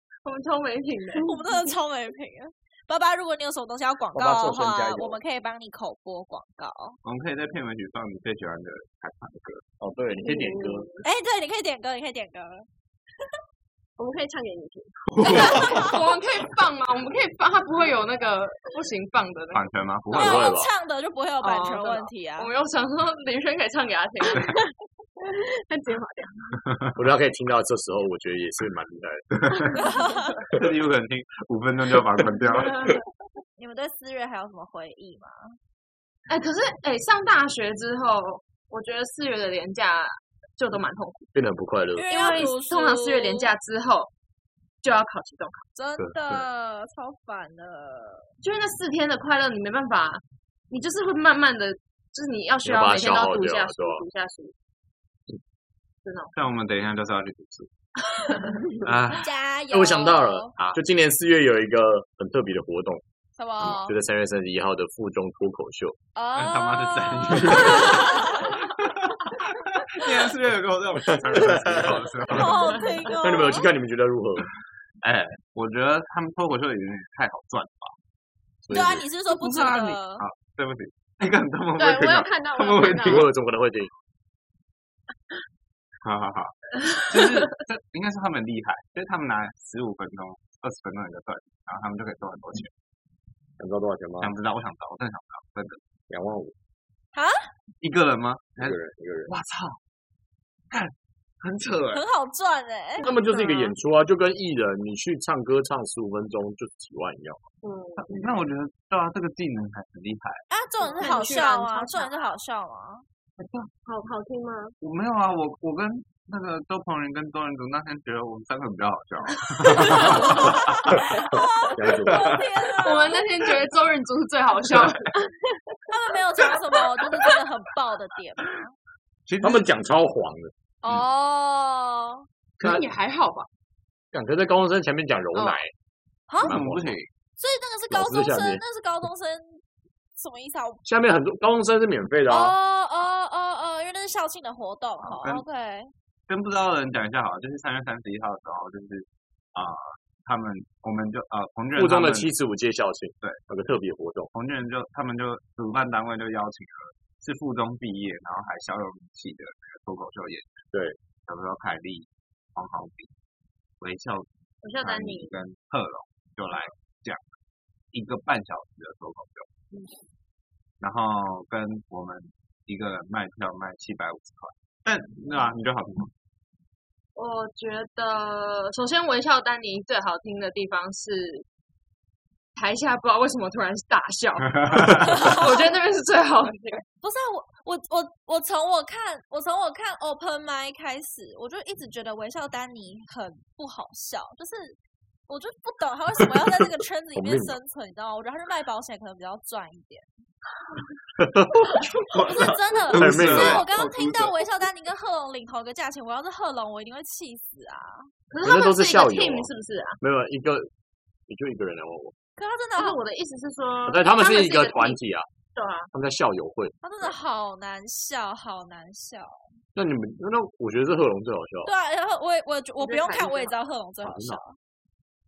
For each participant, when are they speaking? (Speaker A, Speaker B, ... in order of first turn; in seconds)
Speaker A: 0.2-1.3, 15.2-19.6, 21.4-24.5, 36.3-41.3, 42.1-44.1, 44.8-45.7, 48.4-54.5, 56.0-56.3, 58.1-58.6, 111.0-112.3, 122.8-125.2, 132.6-133.5, 135.3-135.6, 164.6-165.3, 169.7-170.0, 177.1-181.4, 182.5-186.8, 208.3-210.0, 212.8-215.0, 215.6-215.9, 222.8-223.6
Speaker B: 1.2-7.0, 11.0-12.7, 15.6-15.9, 20.1-22.5, 29.8-30.4, 33.6-35.6, 42.0-43.5, 45.7-48.3, 59.1-60.5, 63.4-64.0, 66.2-68.5, 72.3-73.7, 78.7-80.2, 97.1-97.5, 101.9-103.7, 110.5-113.0, 119.8-123.2, 125.9-128.7, 130.8-132.3, 137.4-139.6, 140.2-140.8, 142.3-145.9, 185.2-185.6, 187.0-200.1, 202.1-208.1, 212.4-213.0, 216.8-219.5, 221.6-224.6
Speaker C: 4.1-5.2, 9.8-10.9, 20.1-20.7, 26.9-29.3, 41.3-42.4, 46.0-46.5, 52.6-54.0, 59.7-63.0, 63.6-66.0, 71.1-72.5, 73.2-74.5, 78.6-79.1, 83.1-83.9, 93.6-94.3, 96.1-96.5, 98.6-99.3, 103.0-107.5, 120.9-122.4, 129.4-130.5, 134.1-135.7, 136.4-137.0, 137.9-138.6, 140.8-142.6, 151.7-154.3, 196.2-196.6, 197.1-197.6, 201.2-201.9, 202.9-203.7, 208.4-209.5, 210.0-210.7, 211.3-212.1, 213.8-215.3, 215.9-217.1, 219.7-221.7, 224.0-224.4
Speaker D: 7.0-9.6, 15.1-15.8, 19.5-20.5, 26.6-26.9, 29.3-29.8, 30.5-32.9, 56.3-57.7, 58.8-59.2, 66.3-72.8, 75.0-78.0, 79.3-83.3, 86.0-92.7, 94.2-95.8, 97.8-99.8, 100.7-102.0, 108.0-110.4, 113.4-113.7, 114.8-121.2, 122.1-122.4, 129.3-129.7, 136.4-137.1, 145.0-145.4, 146.3-152.3, 154.3-160.7, 161.2-163.1, 163.8-164.3, 164.8-167.4, 167.9-169.5, 170.8-176.1, 184.6-185.1, 202.0-204.3
Speaker E: 10.2-11.0, 14.0-15.6, 24.4-26.5, 81.8-83.2, 107.6-108.3, 110.9-111.3, 113.8-114.7, 125.2-125.9